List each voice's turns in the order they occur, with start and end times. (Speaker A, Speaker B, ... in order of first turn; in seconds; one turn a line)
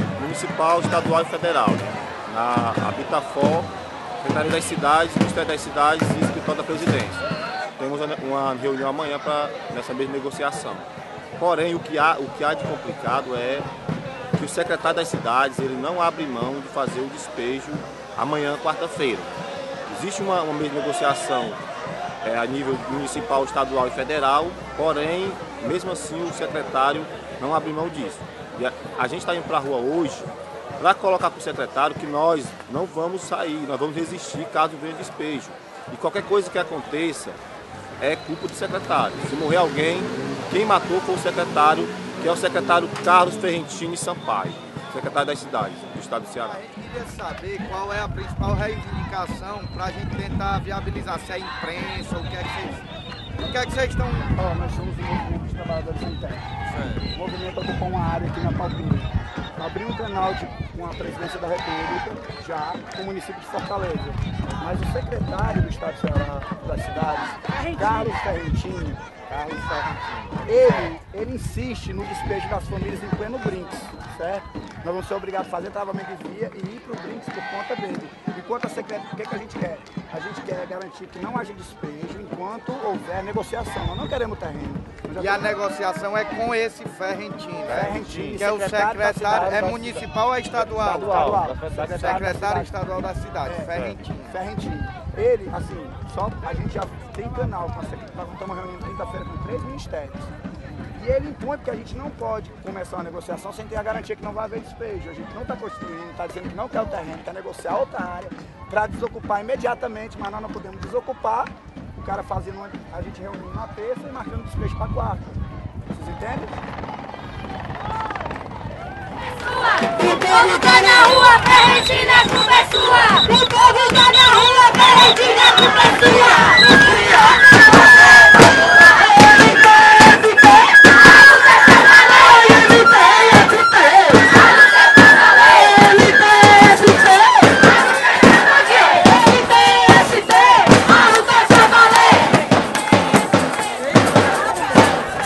Speaker A: 0.2-3.7
Speaker A: 4.2-7.2
Speaker A: 7.8-10.9
Speaker A: 11.4-13.7
Speaker A: 14.4-19.3
Speaker A: 19.9-21.6
Speaker A: 22.2-37.4
Speaker A: 38.0-46.6
Speaker B: 46.3-52.9
Speaker B: 53.4-54.3
Speaker C: 54.3-56.5
Speaker C: 57.0-69.0
Speaker B: 69.3-70.4
Speaker C: 70.4-85.4
Speaker B: 85.2-94.4
Speaker C: 87.7-90.0
Speaker C: 90.7-92.7
Speaker D: 91.3-91.6
Speaker A: 91.3-91.8
Speaker C: 93.4-100.3
Speaker C: 100.9-116.6
Speaker D: 120.5-123.0